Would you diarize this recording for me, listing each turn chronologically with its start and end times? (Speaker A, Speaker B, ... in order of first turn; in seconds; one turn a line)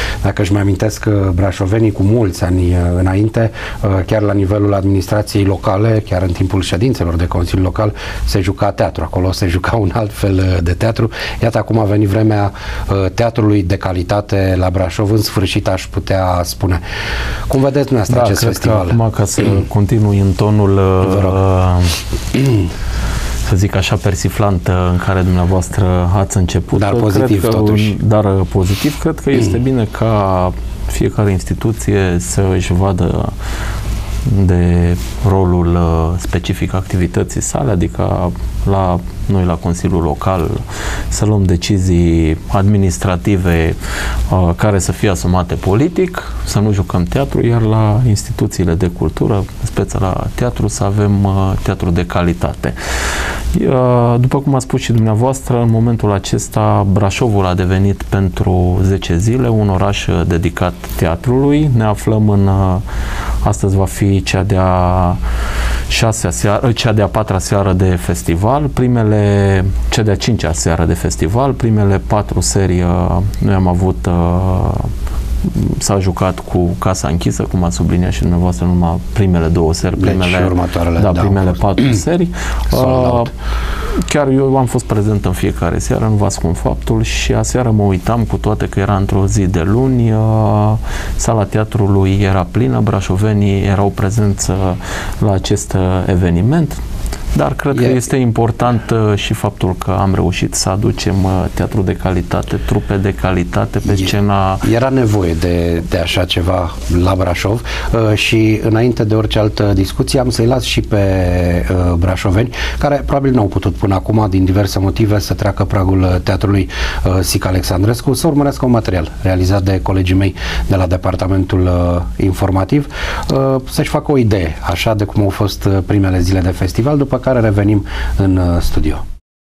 Speaker A: 0.2-16.8
Speaker A: 17.5-19.0
Speaker B: 18.1-21.9
Speaker A: 21.0-21.4
Speaker B: 23.4-33.3
Speaker A: 26.7-27.9
Speaker B: 34.2-43.8
Speaker B: 44.3-52.8
Speaker B: 53.5-62.8
Speaker B: 63.4-65.2
Speaker B: 65.9-74.9
Speaker B: 75.4-83.3
Speaker A: 80.0-82.0
Speaker A: 82.7-83.3
Speaker B: 84.0-96.8
Speaker B: 97.3-104.7
Speaker A: 103.8-129.0